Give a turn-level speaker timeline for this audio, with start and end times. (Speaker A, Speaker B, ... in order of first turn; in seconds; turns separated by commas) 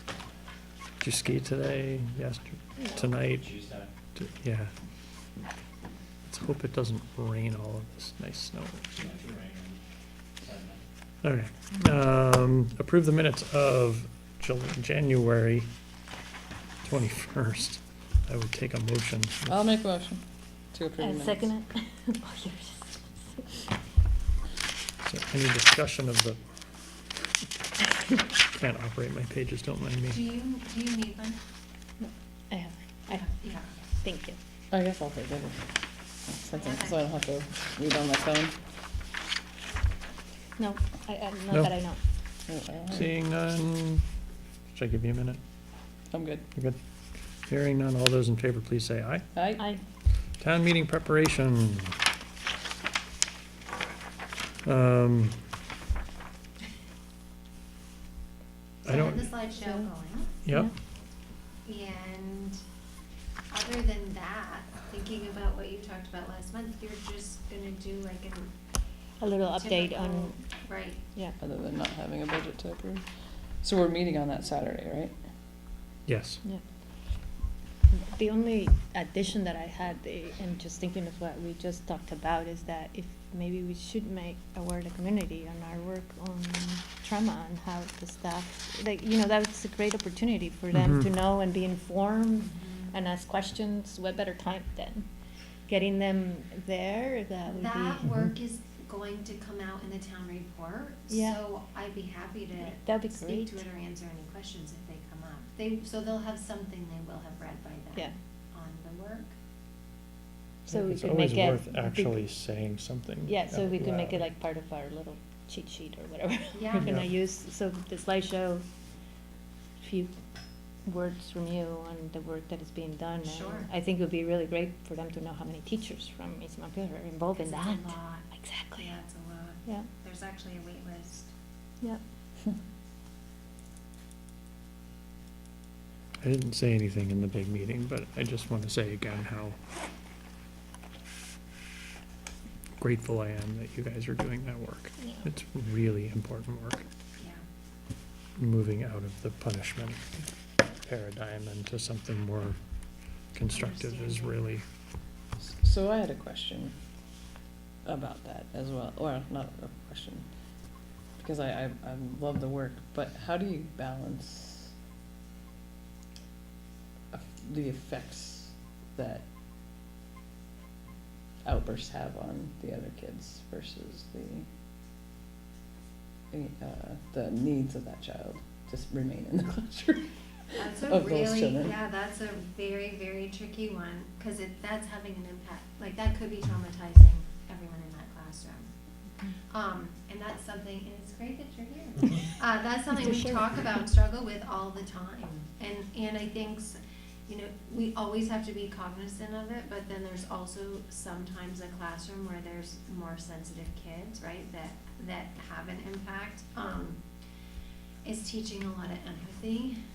Speaker A: 1.0-3.5, Speaker B: 2.9-3.9, Speaker A: 4.2-4.7, Speaker A: 6.2-9.0, Speaker B: 8.9-9.8, Speaker B: 10.4-10.9, Speaker A: 11.2-15.7, Speaker A: 16.8-19.6, Speaker C: 19.5-20.2, Speaker C: 20.7-21.5, Speaker D: 21.0-23.7, Speaker A: 25.0-26.4, Speaker A: 28.5-30.2, Speaker E: 30.1-31.4, Speaker D: 32.0-33.3, Speaker E: 33.4-33.8, Speaker D: 34.0-34.4, Speaker C: 34.7-35.6, Speaker C: 36.3-38.5, Speaker E: 36.5-37.0, Speaker D: 40.6-42.0, Speaker C: 42.5-43.1, Speaker A: 42.9-44.1, Speaker A: 44.7-45.4, Speaker C: 46.1-46.4, Speaker A: 47.5-49.3, Speaker C: 49.3-49.7, Speaker A: 50.4-52.0, Speaker A: 54.6-55.4, Speaker A: 58.8-59.3, Speaker E: 58.9-60.3, Speaker D: 59.6-59.9, Speaker E: 61.6-62.6, Speaker E: 63.5-68.5, Speaker D: 69.2-70.4, Speaker E: 69.5-71.0, Speaker C: 71.4-73.0, Speaker C: 73.6-75.1, Speaker A: 76.0-76.4, Speaker D: 77.9-95.0, Speaker A: 90.7-91.1, Speaker E: 92.4-92.9, Speaker D: 95.7-98.1, Speaker E: 97.5-109.3, Speaker D: 101.1-101.4, Speaker D: 102.6-103.6, Speaker D: 110.7-112.2, Speaker A: 110.7-114.2, Speaker D: 113.2-118.6, Speaker E: 116.5-117.0, Speaker A: 116.8-117.1, Speaker D: 119.8-120.1, Speaker D: 120.8-128.9, Speaker E: 123.2-123.7, Speaker E: 127.3-128.2, Speaker E: 128.8-131.3, Speaker A: 136.2-139.6, Speaker A: 142.8-146.8, Speaker D: 145.0-145.2, Speaker A: 148.4-150.3, Speaker A: 150.8-152.6, Speaker A: 153.3-154.6, Speaker E: 153.5-154.4, Speaker C: 155.5-156.7, Speaker C: 157.8-160.2, Speaker C: 161.2-164.7, Speaker C: 167.1-169.2, Speaker C: 171.4-174.4, Speaker C: 176.3-181.8, Speaker E: 180.6-188.7, Speaker E: 189.5-207.0, Speaker D: 192.9-193.7, Speaker E: 208.0-209.8